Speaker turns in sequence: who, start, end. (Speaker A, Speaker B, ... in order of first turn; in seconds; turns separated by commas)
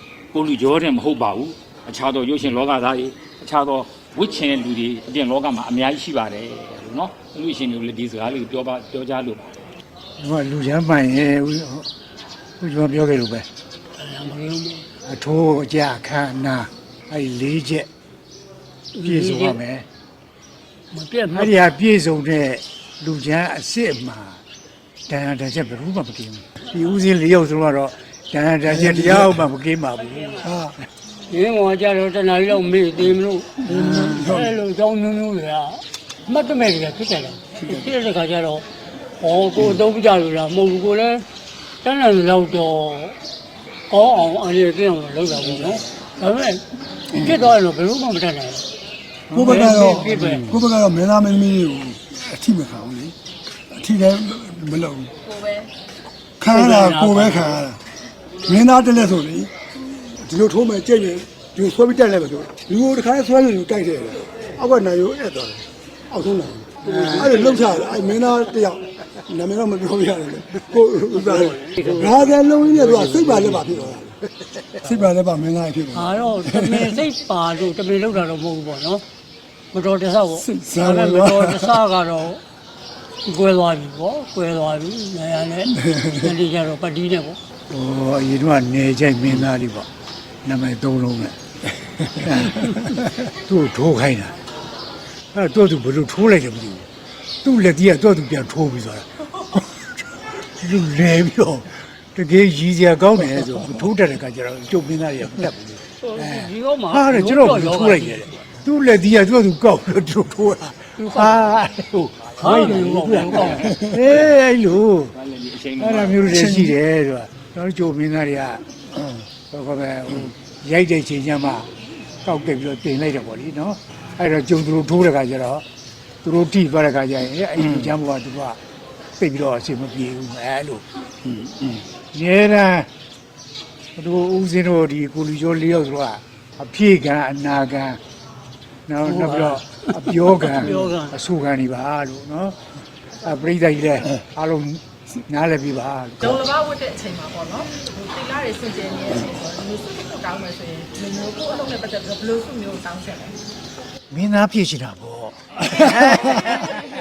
Speaker A: 0.3-9.6, Speaker B: 10.2-11.9, Speaker B: 12.6-13.5, Speaker C: 13.9-14.9, Speaker B: 15.0-17.9, Speaker C: 18.9-19.6, Speaker B: 19.0-19.9, Speaker C: 20.9-21.5, Speaker B: 21.3-24.4, Speaker B: 25.1-30.5, Speaker D: 28.7-29.4, Speaker D: 30.4-30.8, Speaker C: 31.3-41.3, Speaker D: 33.6-34.5, Speaker B: 33.7-34.2, Speaker C: 41.8-43.2, Speaker C: 43.9-48.7, Speaker B: 49.3-50.6, Speaker D: 49.3-53.2, Speaker C: 49.4-50.6, Speaker D: 53.7-55.1, Speaker E: 55.4-55.7, Speaker D: 56.4-57.8, Speaker C: 56.4-57.6, Speaker D: 58.4-74.2, Speaker C: 66.9-67.8, Speaker B: 66.9-67.2, Speaker C: 71.2-73.5, Speaker D: 74.8-76.9, Speaker C: 75.9-79.0, Speaker C: 79.7-82.4, Speaker D: 80.4-81.7, Speaker C: 83.2-87.4, Speaker B: 87.7-89.9, Speaker B: 90.5-91.4, Speaker B: 92.0-94.4, Speaker B: 95.3-96.9, Speaker B: 97.4-99.8, Speaker B: 100.4-115.1, Speaker C: 106.0-108.5, Speaker C: 111.0-111.4, Speaker C: 112.3-113.8, Speaker A: 115.1-116.5, Speaker B: 115.8-118.6, Speaker D: 116.3-116.8, Speaker B: 119.5-121.7, Speaker B: 122.2-125.6, Speaker B: 126.2-128.6, Speaker B: 129.2-130.8, Speaker D: 131.4-131.7, Speaker B: 132.1-132.9, Speaker B: 134.0-138.0, Speaker B: 138.9-142.6, Speaker C: 139.0-141.2, Speaker B: 143.2-146.5, Speaker E: 146.4-153.4, Speaker B: 154.1-156.4, Speaker D: 155.8-156.0